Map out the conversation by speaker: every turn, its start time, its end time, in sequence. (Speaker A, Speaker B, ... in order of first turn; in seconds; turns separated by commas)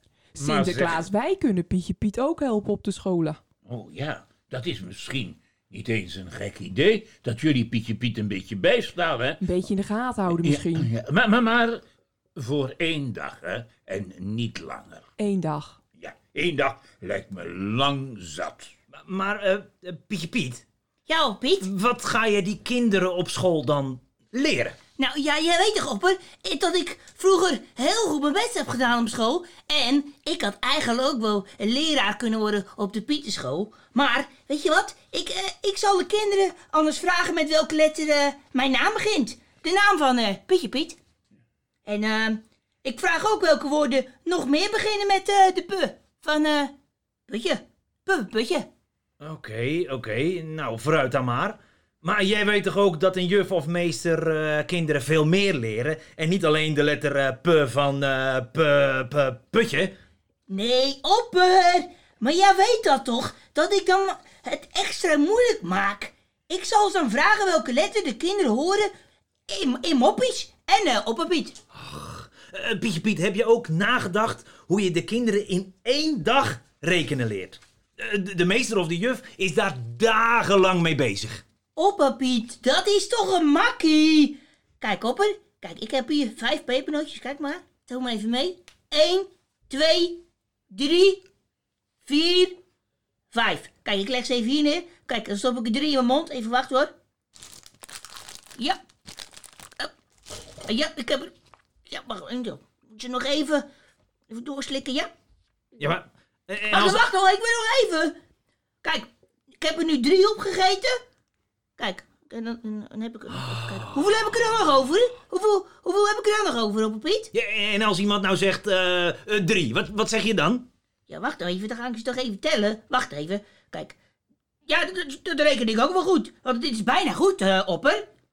Speaker A: 0.3-3.4, Speaker B: 0.4-1.1, Speaker B: 3.6-9.5, Speaker A: 9.4-10.9, Speaker B: 10.3-11.8, Speaker B: 12.4-15.1, Speaker A: 15.2-15.8, Speaker B: 16.0-18.7, Speaker C: 18.9-20.6, Speaker D: 21.1-21.7, Speaker C: 21.6-24.8, Speaker D: 25.0-41.0, Speaker D: 41.8-46.7, Speaker D: 47.3-48.7, Speaker C: 49.2-59.9, Speaker D: 60.5-68.9, Speaker D: 69.5-71.6, Speaker C: 71.7-81.4, Speaker D: 81.8-91.2, Speaker D: 92.0-92.6, Speaker D: 93.3-96.9, Speaker D: 100.7-101.3, Speaker D: 101.8-103.6, Speaker D: 104.3-105.1, Speaker C: 105.8-107.1, Speaker D: 106.7-108.1, Speaker D: 108.8-110.9, Speaker D: 111.8-117.3, Speaker C: 113.4-114.1, Speaker C: 117.3-120.7, Speaker D: 121.1-124.0, Speaker D: 124.7-128.1